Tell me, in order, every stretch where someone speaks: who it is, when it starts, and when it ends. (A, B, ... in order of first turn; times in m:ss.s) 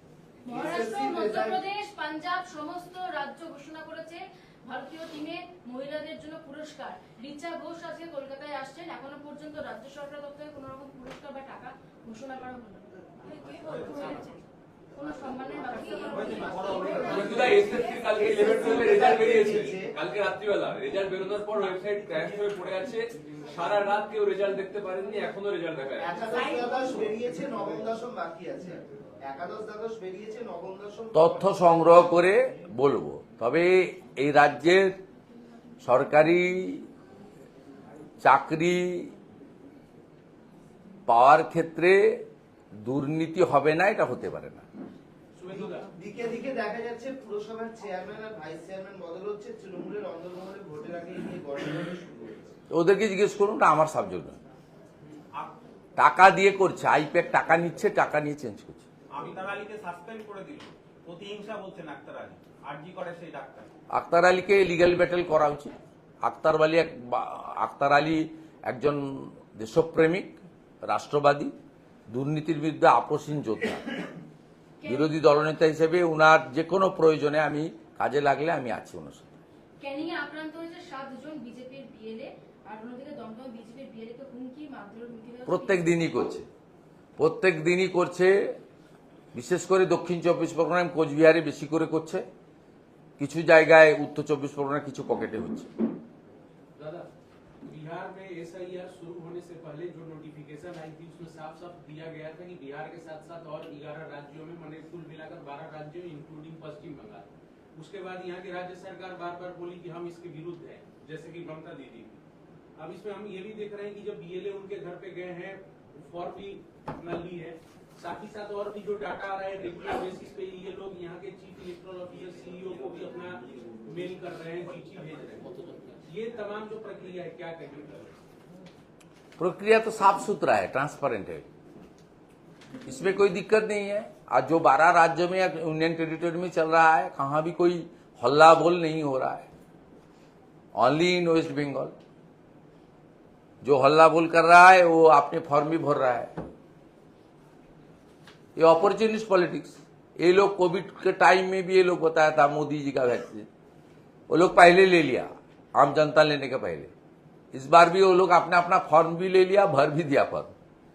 0:00.4-0:01.6 A
0:00.5-0:12.9 B
0:13.6-0:14.1 C
0:15.0-0:17.0 B
0:15.8-0:19.9 A
0:16.2-0:17.0 C
0:17.0-0:26.1 D
0:26.0-0:32.5 A
0:26.3-0:26.9 B
0:31.1-0:35.0 E
0:35.8-0:36.9 E
0:38.2-0:39.1 E
0:41.1-0:42.3 E
0:42.8-0:44.6 E
0:45.4-0:45.9 F
0:45.5-0:52.5 A
0:52.7-0:54.4 E
0:56.0-0:58.9 E
0:59.1-1:03.7 C
1:03.9-1:11.5 E
1:12.1-1:14.0 E
1:14.8-1:15.1 B
1:14.8-1:19.3 E
1:19.8-1:26.0 B
1:25.5-1:26.5 E
1:27.2-1:28.6 E
1:29.3-1:32.2 E
1:33.2-1:35.7 E
1:36.8-1:37.1 F
1:37.6-1:52.2 F
1:52.8-2:05.5 F
2:06.0-2:08.1 F
2:09.4-2:11.5 E
2:12.8-2:19.5 E
2:20.8-2:21.9 E
2:23.6-2:26.3 E
2:28.6-2:33.5 E
2:34.3-2:36.9 E
2:37.5-2:40.5 E